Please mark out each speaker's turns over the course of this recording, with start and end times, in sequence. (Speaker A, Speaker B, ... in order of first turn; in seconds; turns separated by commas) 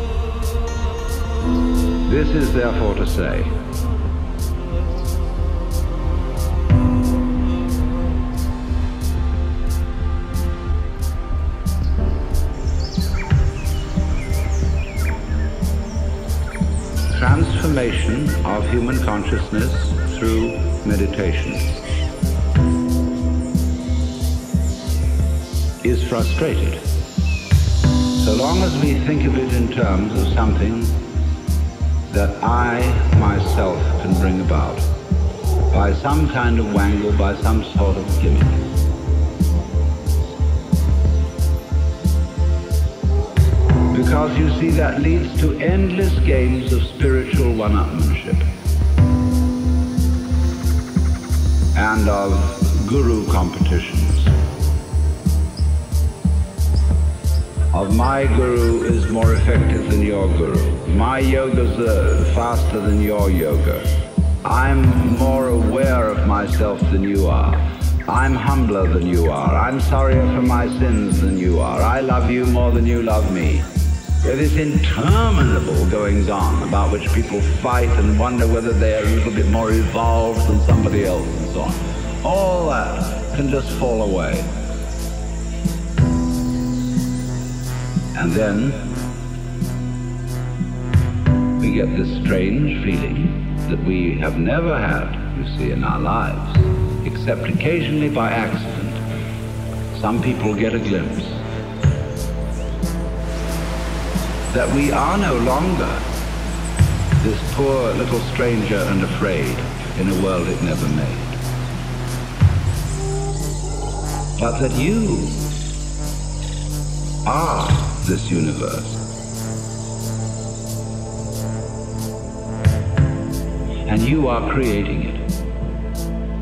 Speaker A: 2.1-3.6, Speaker A: 17.1-21.7, Speaker A: 25.8-26.8, Speaker A: 28.1-31.0, Speaker A: 32.1-34.9, Speaker A: 35.7-38.6, Speaker A: 43.9-48.5, Speaker A: 51.8-54.3, Speaker A: 57.7-63.9, Speaker A: 64.4-73.7, Speaker A: 74.2-84.5, Speaker A: 88.1-88.9, Speaker A: 91.6-99.0, Speaker A: 99.9-101.5, Speaker A: 104.5-106.1, Speaker A: 107.2-111.4, Speaker A: 114.4-115.5, Speaker A: 117.2-119.0, Speaker A: 123.9-125.3